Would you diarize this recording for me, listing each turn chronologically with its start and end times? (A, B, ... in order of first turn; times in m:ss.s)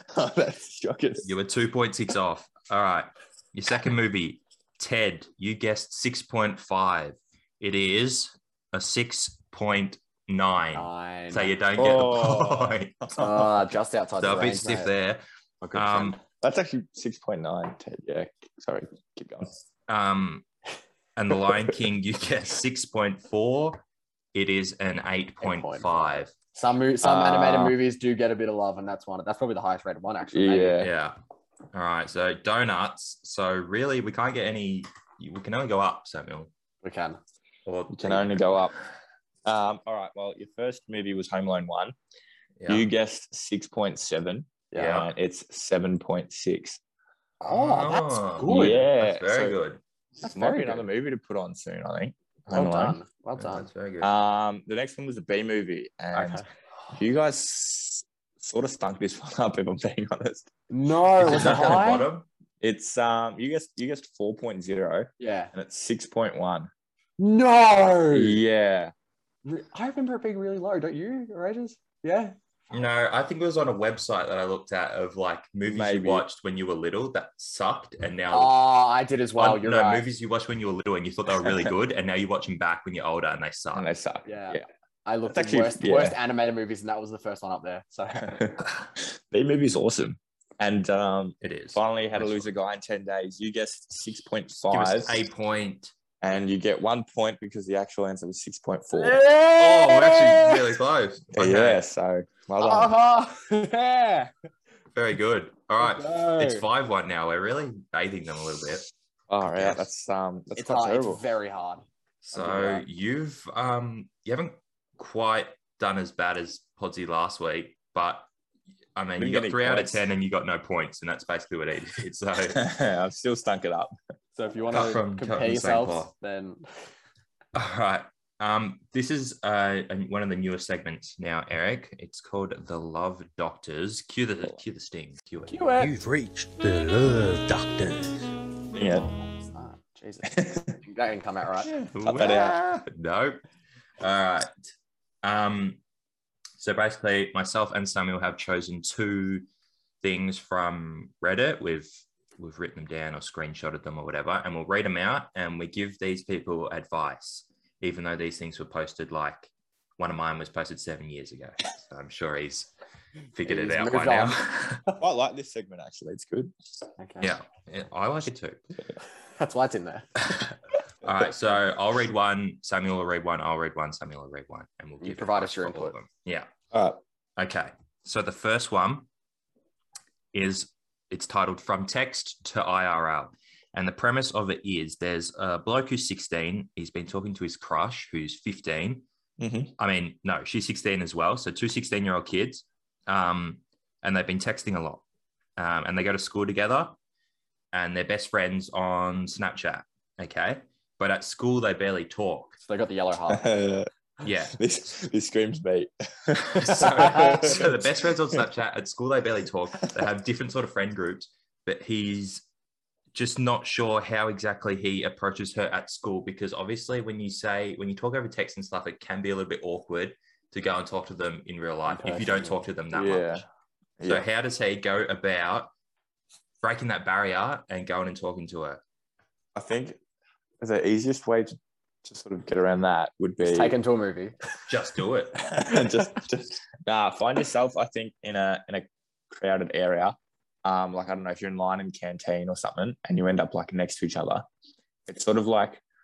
0:00.1-0:01.3 A
0:01.2-0:13.0 B
0:10.8-0:11.5 C
0:11.8-0:13.5 A
0:13.2-0:14.9 C
0:14.2-0:15.2 B
0:15.6-0:16.2 C
0:15.7-0:16.2 B
0:16.4-0:19.6 A
0:19.9-0:20.5 B
0:21.2-0:23.8 B
0:24.3-0:26.3 B
0:25.4-0:30.8 C
0:27.0-0:27.8 A
0:30.3-0:30.9 A
0:30.8-0:31.2 B
0:31.7-0:36.5 B
0:36.8-0:37.2 C
0:37.7-0:38.7 B
0:37.9-0:38.7 A
0:39.4-0:42.0 A
0:42.6-0:42.9 B
0:42.7-0:46.8 A
0:44.7-0:45.0 C
0:44.8-0:45.1 B
0:47.4-0:48.8 C
0:47.5-0:49.8 B
0:48.5-0:49.6 A
0:50.2-0:50.9 C
0:50.3-0:53.0 A
0:52.5-0:53.7 C
0:53.4-0:54.1 B
0:54.0-0:56.4 A
0:56.1-0:56.4 C
0:56.9-1:00.5 A
1:00.7-1:02.1 C
1:01.2-1:02.3 B
1:01.2-1:01.8 A
1:02.6-1:06.7 A
1:05.2-1:05.5 C
1:07.2-1:08.4 C
1:08.1-1:08.9 A
1:09.4-1:12.4 C
1:12.7-1:18.6 B
1:15.7-1:16.3 A
1:18.3-1:20.0 C
1:19.4-1:23.9 B
1:23.7-1:24.7 A
1:24.3-1:28.4 C
1:25.3-1:26.2 A
1:28.2-1:35.2 A
1:31.4-1:32.5 B
1:34.7-1:35.9 B
1:36.2-1:39.2 A
1:39.0-1:40.6 C
1:39.6-1:41.8 B
1:41.3-1:42.9 A
1:42.6-1:44.3 C
1:45.0-1:48.9 B
1:45.8-1:46.7 C
1:49.3-1:51.2 A
1:49.4-1:49.9 B
1:50.6-1:51.8 C
1:52.2-1:58.3 B
1:52.4-1:52.8 C
1:59.0-2:02.6 B
1:59.2-2:00.0 A
2:02.5-2:03.9 A
2:04.4-2:06.7 C
2:04.7-2:06.1 B
2:07.5-2:15.7 B
2:15.5-2:15.9 C
2:15.8-2:18.2 D
2:18.7-2:19.1 A
2:18.7-2:21.7 C
2:20.3-2:20.7 A
2:21.6-2:22.8 A
2:21.9-2:23.4 B
2:24.0-2:24.5 B
2:25.2-2:25.8 B
2:26.6-2:29.4 B
2:30.0-2:42.7 B
2:43.3-2:44.8 B
2:43.4-2:45.0 C
2:45.0-2:46.5 A
2:47.0-2:47.3 C
2:47.2-2:48.6 B
2:49.2-2:50.1 C
2:50.2-2:56.5 B
2:55.0-2:56.0 C
2:56.7-2:57.0 A
2:57.4-2:59.1 B
3:00.3-3:09.1 B
3:09.4-3:09.7 A
3:09.8-3:15.0 B
3:15.6-3:17.0 B
3:17.7-3:22.6 B
3:22.6-3:23.5 C
3:23.3-3:23.9 A
3:24.2-3:24.6 B
3:24.5-3:28.1 A
3:26.5-3:32.5 B
3:33.1-3:43.4 B
3:41.9-3:42.6 C
3:42.9-3:43.4 A
3:44.0-3:44.3 A
3:44.1-3:45.7 B
3:46.6-3:48.8 B
3:49.6-3:50.0 A
3:50.6-3:53.8 A
3:53.4-3:54.4 C
3:54.7-3:55.4 B
3:55.4-4:04.5 A
4:05.1-4:05.8 A